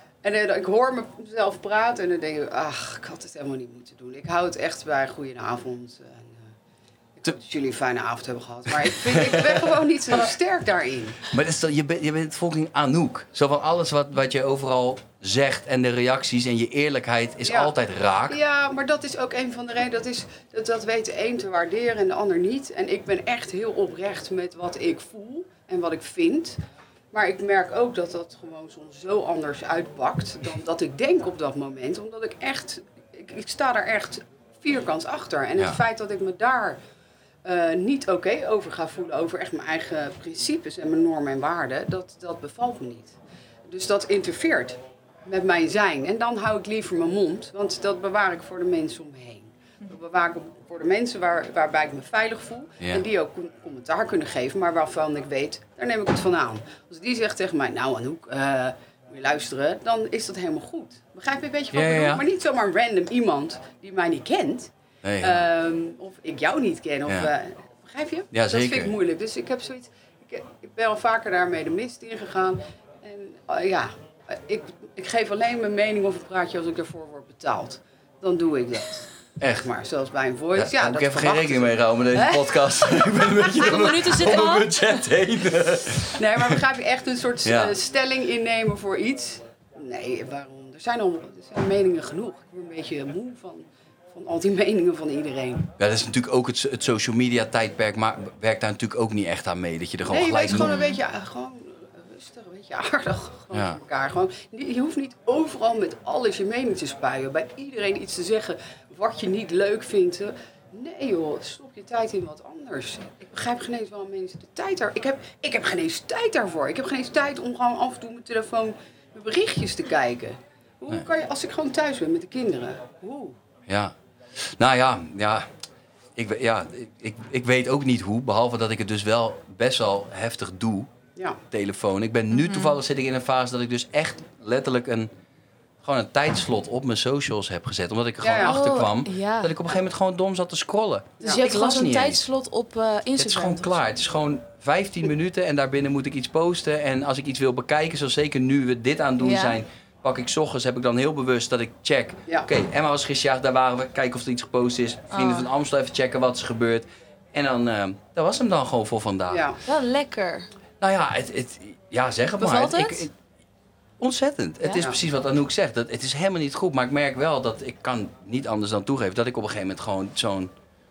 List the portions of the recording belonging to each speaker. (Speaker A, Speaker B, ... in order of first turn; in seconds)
Speaker A: 0.2-6.5, 7.2-11.3, 17.4-17.7, 18.3-26.6, 27.1-36.8, 37.4-43.1, 43.7-64.7, 65.2-83.1, 86.1-95.7, 100.1-123.3, 138.2-138.6, 141.2-141.4, 159.3-159.6
Speaker B: 8.8-9.8, 11.2-18.4, 61.7-62.2, 65.0-65.5, 68.3-69.0, 79.4-79.7, 80.5-86.5, 87.4-87.7, 95.8-100.8, 103.5-103.8, 123.7-125.5, 126.2-130.9, 131.5-135.1, 135.8-142.2, 143.2-159.5, 160.8-163.1, 164.0-170.5
Speaker C: 83.5-84.8, 100.5-101.0, 132.3-132.8, 138.4-139.6, 141.2-143.8, 149.2-149.6, 155.1-155.5, 159.6-160.5, 162.4-163.1, 164.6-164.9